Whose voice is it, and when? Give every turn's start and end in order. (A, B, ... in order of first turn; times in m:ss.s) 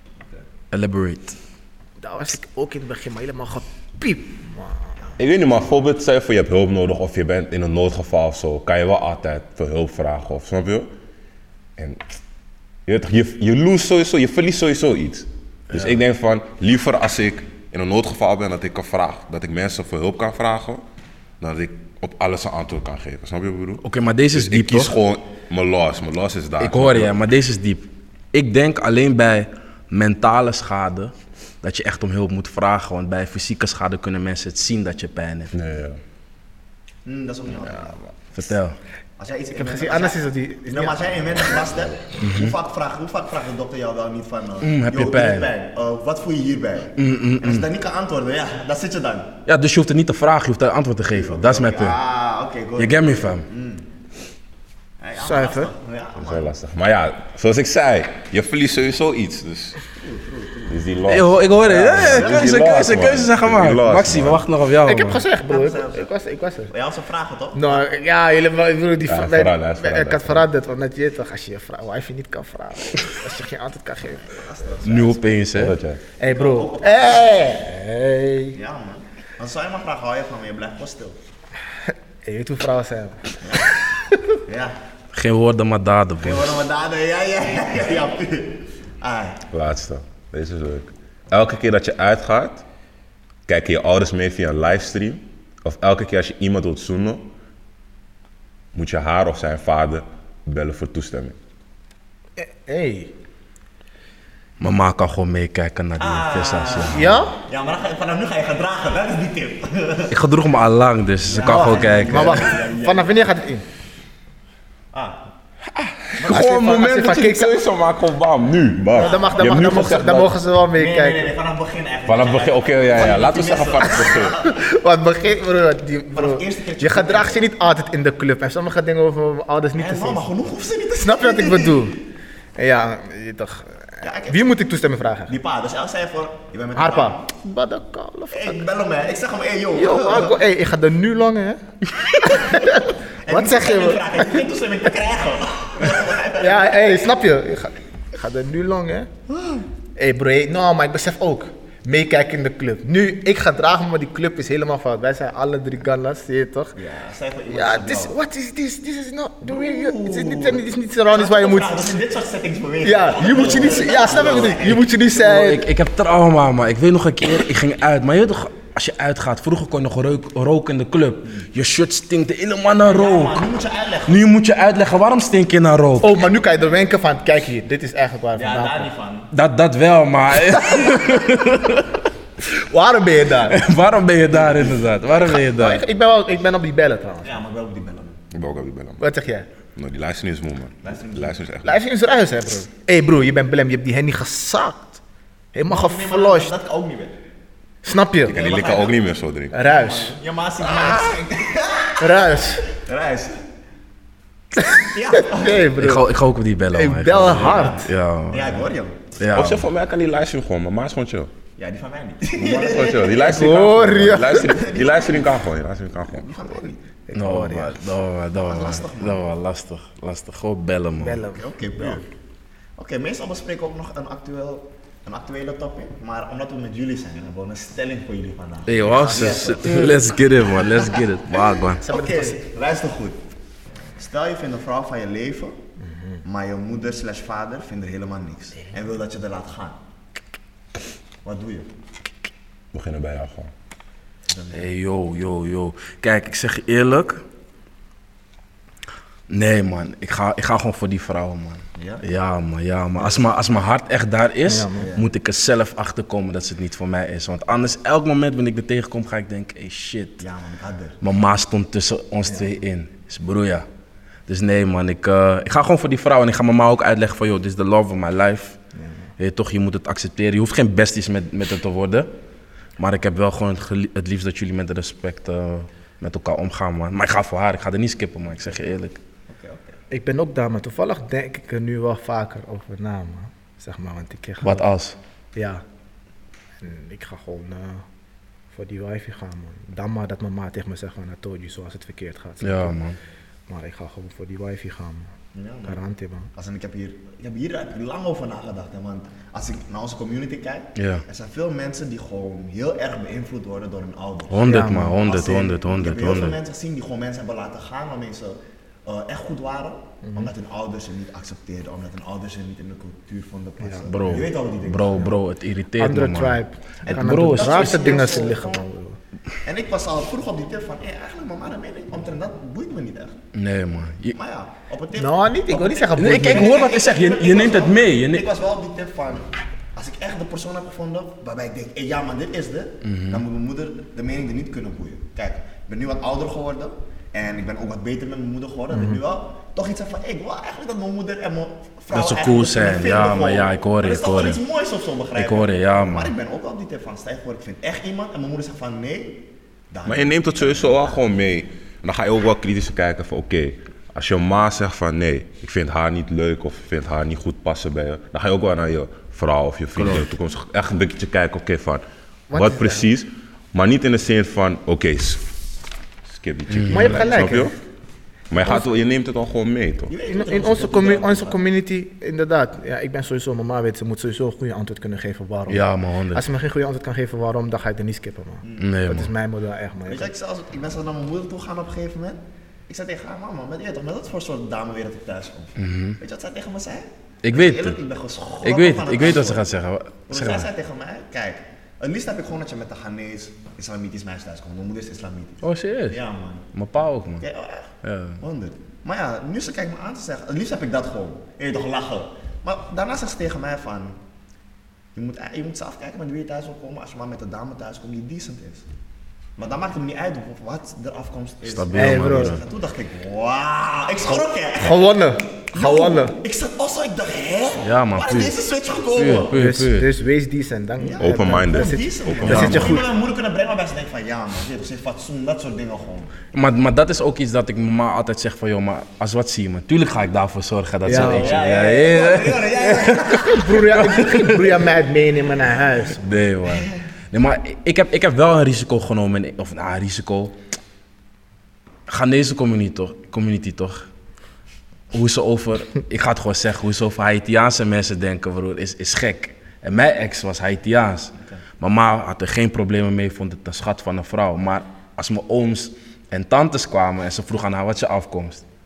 0:00.7-0:01.4 A
0:02.0-0:04.9 B
0:05.2-0:10.9 C
0:11.8-0:12.0 C
0:12.8-0:20.8 C
0:15.7-0:16.0 A
0:21.4-0:27.1 C
0:23.8-0:24.9 A
0:26.6-0:35.5 A
0:35.5-0:36.0 C
0:37.0-0:38.0 D
0:38.3-0:38.8 A
0:39.2-0:49.3 D
0:39.5-0:41.0 B
0:42.2-0:42.5 A
0:44.6-0:45.5 A
0:47.0-0:47.6 A
0:49.5-0:52.0 A
0:51.1-0:53.8 D
0:52.8-0:53.4 A
0:55.0-0:56.5 D
0:55.2-0:55.7 B
0:56.2-0:59.8 C
0:59.9-1:01.2 D
1:00.7-1:04.4 C
1:01.1-1:05.2 A
1:04.8-1:06.7 B
1:05.4-1:06.1 D
1:06.7-1:07.8 D
1:07.5-1:14.4 B
1:09.0-1:10.5 C
1:14.2-1:15.4 D
1:14.8-1:15.8 A
1:15.5-1:16.0 C
1:16.2-1:18.6 B
1:16.2-1:17.4 D
1:18.5-1:21.2 D
1:21.9-1:23.4 B
1:23.4-1:23.8 D
1:24.5-1:24.8 D
1:25.1-1:26.5 A
1:26.2-1:29.4 D
1:29.5-1:32.6 C
1:33.5-1:37.3 C
1:38.7-1:41.4 C
1:42.4-1:43.1 B
1:44.6-1:47.2 A
1:46.0-1:50.1 D
1:46.9-1:47.4 B
1:50.1-1:52.5 A
1:51.2-1:53.2 D
1:51.5-1:53.6 B
1:54.9-1:55.2 D
1:55.8-2:00.4 C
1:56.2-1:57.6 B
1:58.9-1:59.9 D
1:58.9-2:01.3 B
2:00.7-2:04.6 D
2:02.0-2:04.4 C
2:04.4-2:10.3 B
2:06.1-2:07.4 D
2:09.7-2:11.9 D
2:11.0-2:12.0 B
2:12.6-2:15.3 B
2:14.0-2:14.5 D
2:15.3-2:17.2 D
2:16.8-2:18.6 B
2:18.3-2:20.4 D
2:19.7-2:24.4 B
2:22.2-2:22.7 D
2:23.2-2:26.8 D
2:26.4-2:29.1 B
2:29.3-2:29.6 D
2:30.0-2:36.7 B
2:36.7-2:38.1 D
2:37.5-2:41.9 B
2:39.4-2:44.9 D
2:42.8-2:45.6 B
2:45.1-2:53.4 A
2:52.8-2:54.2 D
2:54.1-2:56.2 A
2:56.0-2:58.9 B
2:58.3-2:59.3 D
2:59.3-3:02.0 A
3:00.6-3:01.2 B
3:02.4-3:03.6 B
3:03.5-3:05.8 A
3:04.3-3:04.8 D
3:05.2-3:07.4 B
3:07.2-3:08.2 D
3:08.3-3:09.0 C
3:09.0-3:09.5 B
3:09.8-3:11.8 C
3:10.8-3:11.4 D
3:11.6-3:15.0 B
3:15.5-3:16.5 B
3:15.7-3:17.2 D
3:17.8-3:18.3 B
3:18.2-3:19.6 C
3:18.3-3:19.0 D
3:19.5-3:20.2 B
3:19.6-3:23.4 D
3:22.0-3:22.6 B
3:24.6-3:26.1 B
3:24.9-3:25.7 D
3:25.8-3:29.6 A
3:26.7-3:27.9 B
3:27.2-3:29.0 D
3:29.3-3:31.3 C
3:31.6-3:35.4 D
3:32.3-3:36.2 C
3:33.1-3:34.5 B
3:36.0-3:36.8 D
3:37.1-3:37.8 B
3:37.1-3:41.2 A
3:38.4-3:39.2 D
3:41.0-3:42.0 B
3:41.3-3:42.0 D
3:42.8-3:50.9 D
3:48.6-3:51.8 A
3:51.8-3:52.4 B
3:51.8-3:53.2 D
3:54.0-3:55.6 D
3:56.2-3:59.8 D
4:01.2-4:01.7 D
4:02.7-4:03.5 C
4:04.3-4:04.6 D
4:04.5-4:07.2 A
4:09.3-4:20.2 A
4:11.7-4:12.0 D
4:13.0-4:13.3 D
4:14.5-4:14.8 B
4:14.8-4:15.1 D
4:20.2-4:21.0 D
4:21.0-4:23.6 A
4:24.3-4:28.6 A
4:29.2-4:32.1 A
4:32.8-4:39.0 A
4:39.3-4:39.8 D
4:39.9-4:44.6 B
4:44.4-4:45.0 A
4:45.3-4:45.6 B
4:46.6-4:47.8 B
4:48.5-4:52.8 B
4:52.4-4:53.0 A
4:53.5-4:55.1 B
4:55.3-4:55.8 D
4:55.6-4:56.3 B
4:56.3-5:15.2 D
5:00.8-5:01.0 A
5:04.3-5:06.4 A
5:04.4-5:05.0 B
5:10.0-5:10.3 B
5:13.9-5:18.3 A
5:15.8-5:19.0 B
5:16.8-5:18.6 D
5:19.4-5:23.2 D
5:23.3-5:24.2 A
5:24.1-5:50.9 D
5:24.9-5:26.6 B
5:26.0-5:28.2 A
5:32.8-5:33.2 A
5:38.7-5:39.0 B
5:41.9-5:44.4 A
5:45.2-5:46.1 A
5:49.8-6:05.2 C
5:59.8-6:00.0 A
6:02.3-6:02.8 B
6:06.1-6:07.5 C
6:06.5-6:07.0 A
6:06.7-6:07.6 B
6:08.3-6:09.9 C
6:09.9-6:11.4 D
6:10.1-6:20.1 B
6:15.5-6:16.2 A
6:18.4-6:19.1 D
6:18.6-6:19.1 A
6:19.9-6:29.4 D
6:25.6-6:26.0 A
6:27.2-6:27.8 A
6:28.4-6:30.5 A
6:30.1-6:36.5 D
6:35.4-6:36.0 A
6:36.5-6:37.2 A
6:37.2-6:44.0 D
6:37.8-6:38.2 A
6:44.9-6:48.6 D
6:49.4-6:59.4 D
6:51.5-6:52.4 A
6:51.7-6:52.4 B
6:54.6-6:56.2 B
6:57.6-6:58.4 A
6:58.9-6:59.9 A
6:59.3-7:02.9 B
7:00.8-7:06.1 D
7:01.0-7:02.7 C
7:02.2-7:02.7 A
7:06.3-7:14.4 A
7:10.8-7:11.4 B
7:10.9-7:14.2 D
7:13.2-7:16.1 B
7:16.0-7:20.3 A
7:16.4-7:16.8 D
7:21.9-7:23.9 A
7:24.9-7:38.4 A